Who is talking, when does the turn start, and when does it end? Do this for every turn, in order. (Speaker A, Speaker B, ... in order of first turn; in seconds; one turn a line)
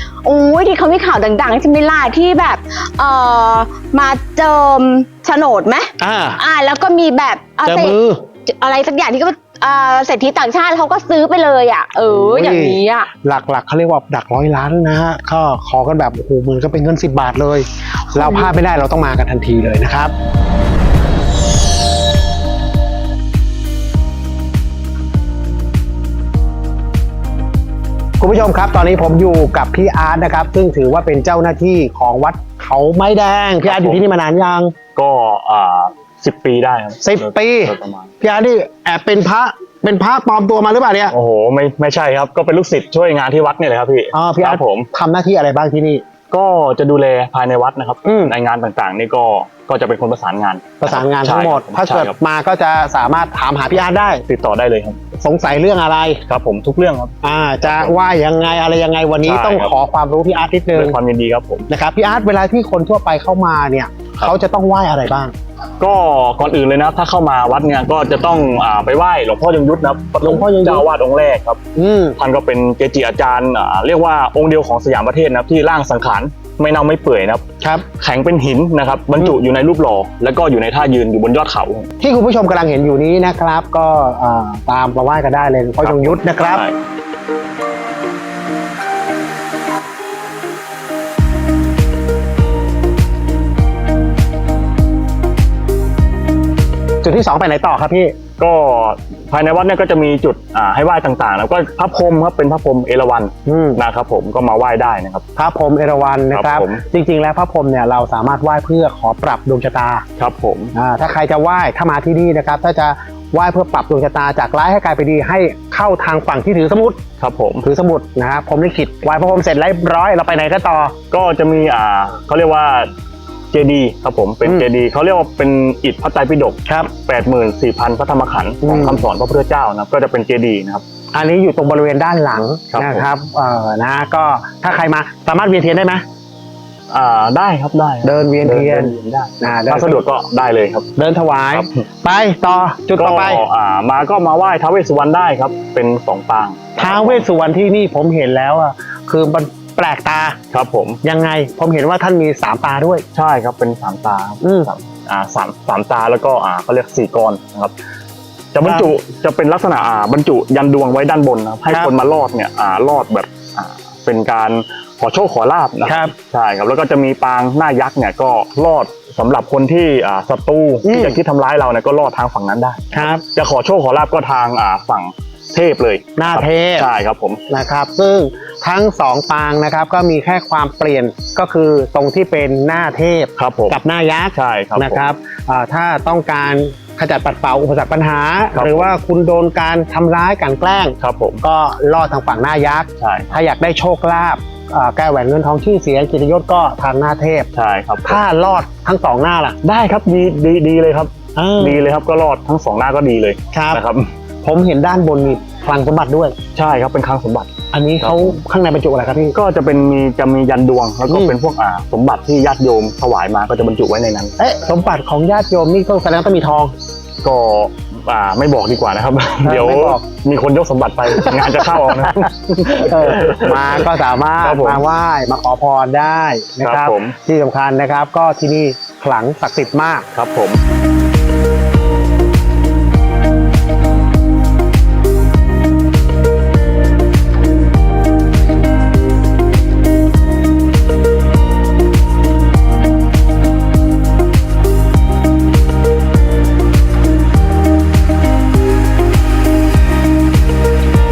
Speaker A: 0.2-8.0
Speaker B: 6.0-6.4
Speaker B: 7.7-8.2
Speaker A: 8.5-13.1
Speaker B: 12.1-20.1
Speaker B: 28.2-34.7
Speaker C: 33.6-34.0
Speaker C: 35.0-38.1
Speaker B: 37.0-41.1
Speaker C: 41.1-44.9
Speaker B: 44.1-46.0
Speaker C: 46.3-52.2
Speaker B: 48.0-48.4
Speaker B: 50.8-54.2
Speaker C: 54.3-55.0
Speaker B: 55.2-56.2
Speaker C: 56.3-57.9
Speaker B: 57.2-61.0
Speaker C: 59.2-59.7
Speaker C: 60.8-61.7
Speaker B: 61.7-65.3
Speaker C: 65.8-71.6
Speaker B: 70.2-70.9
Speaker B: 71.8-72.2
Speaker C: 72.2-77.4
Speaker C: 78.0-81.9
Speaker B: 82.0-86.7
Speaker C: 85.8-86.8
Speaker B: 97.0-98.1
Speaker C: 98.4-105.2
Speaker B: 103.5-103.8
Speaker B: 105.4-110.0
Speaker C: 106.3-106.8
Speaker C: 110.2-110.7
Speaker B: 110.8-117.0
Speaker C: 117.2-117.7
Speaker B: 117.6-120.9
Speaker C: 121.1-122.9
Speaker C: 123.5-130.8
Speaker B: 128.6-129.1
Speaker B: 131.1-136.0
Speaker C: 132.7-133.1
Speaker C: 136.9-140.9
Speaker B: 138.0-140.1
Speaker B: 141.0-143.4
Speaker C: 141.5-141.8
Speaker C: 143.0-147.3
Speaker B: 146.8-150.4
Speaker C: 150.5-151.0
Speaker B: 151.0-153.1
Speaker C: 153.1-157.7
Speaker B: 154.4-154.7
Speaker C: 158.5-177.4
Speaker B: 158.7-158.9
Speaker B: 165.9-166.1
Speaker B: 170.8-171.2
Speaker B: 172.9-173.2
Speaker B: 176.2-176.9
Speaker B: 177.5-197.5
Speaker C: 183.4-183.8
Speaker C: 184.3-185.1
Speaker C: 188.5-188.9
Speaker C: 191.0-191.4
Speaker C: 193.0-193.3
Speaker C: 197.5-198.2
Speaker B: 198.1-199.6
Speaker C: 199.6-204.1
Speaker B: 201.4-201.8
Speaker B: 203.5-203.8
Speaker B: 204.4-206.3
Speaker C: 206.6-207.5
Speaker B: 207.7-209.4
Speaker C: 208.0-208.4
Speaker C: 209.3-214.4
Speaker B: 211.1-211.4
Speaker B: 214.4-216.7
Speaker C: 217.2-223.9
Speaker B: 219.4-220.0
Speaker B: 221.1-230.1
Speaker C: 224.4-224.8
Speaker C: 226.6-227.2
Speaker C: 230.1-230.6